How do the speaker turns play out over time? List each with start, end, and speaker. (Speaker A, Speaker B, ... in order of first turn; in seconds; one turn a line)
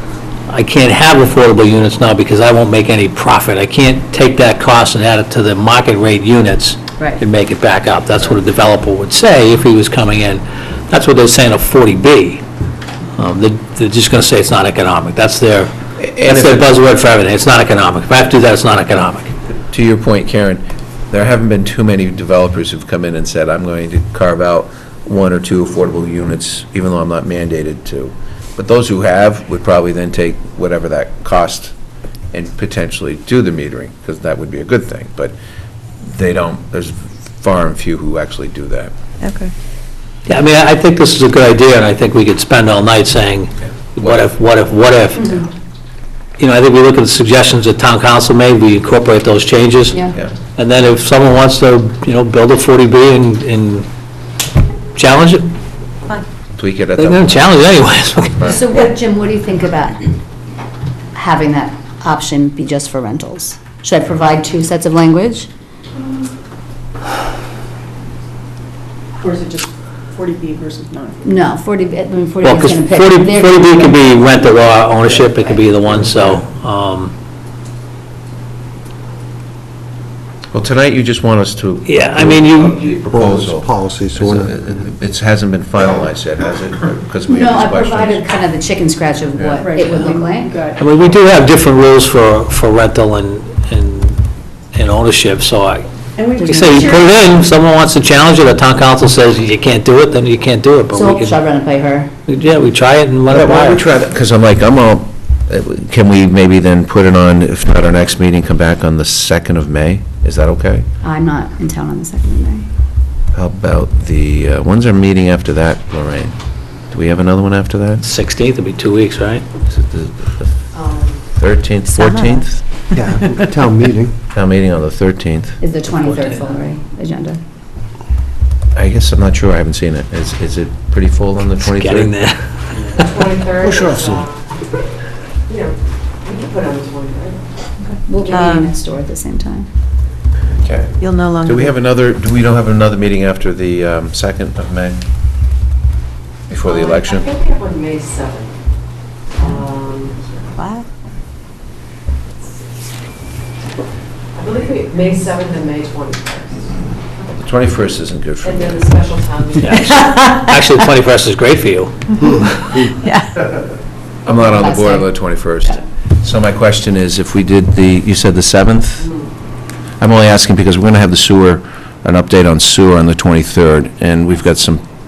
Speaker A: 0.5-12.4
Speaker A: 13.2-19.3
Speaker B: 16.0-16.7
Speaker B: 19.7-31.7
Speaker B: 32.3-35.4
Speaker B: 36.0-38.9
Speaker C: 39.2-39.5
Speaker A: 40.3-45.5
Speaker B: 44.0-44.3
Speaker D: 45.2-45.4
Speaker A: 46.4-53.9
Speaker A: 55.0-55.5
Speaker B: 56.6-57.7
Speaker A: 57.0-58.6
Speaker B: 58.2-58.6
Speaker D: 58.4-60.1
Speaker D: 61.1-65.5
Speaker E: 69.2-71.2
Speaker D: 71.2-74.4
Speaker A: 72.4-77.1
Speaker B: 80.5-88.2
Speaker A: 81.8-82.9
Speaker F: 83.0-84.8
Speaker D: 87.3-90.7
Speaker E: 89.6-90.8
Speaker A: 90.8-94.2
Speaker A: 94.7-101.4
Speaker E: 96.2-97.0
Speaker D: 96.4-96.9
Speaker D: 100.9-102.1
Speaker A: 102.3-103.9
Speaker B: 103.3-110.8
Speaker D: 111.0-112.7
Speaker B: 113.3-116.3
Speaker B: 116.9-118.0
Speaker A: 118.0-119.5
Speaker B: 119.7-120.5
Speaker G: 120.8-121.2
Speaker B: 121.3-122.6
Speaker C: 121.9-122.5
Speaker F: 123.0-124.2
Speaker C: 123.0-123.4
Speaker B: 124.3-125.6
Speaker D: 125.6-127.4
Speaker B: 128.8-132.1
Speaker A: 131.6-133.3
Speaker G: 132.9-134.4
Speaker F: 133.7-134.2
Speaker G: 135.5-137.4
Speaker C: 137.9-138.7
Speaker D: 138.1-139.7
Speaker B: 140.6-145.0
Speaker C: 141.0-141.7
Speaker B: 146.5-147.4
Speaker G: 146.7-148.5
Speaker G: 149.4-150.3
Speaker C: 150.6-150.9
Speaker G: 154.3-156.7
Speaker B: 157.3-158.9
Speaker G: 158.4-160.2
Speaker A: 159.6-162.8
Speaker C: 159.7-160.6
Speaker C: 163.0-163.4
Speaker B: 164.2-169.1
Speaker D: 164.3-165.1
Speaker B: 170.0-174.8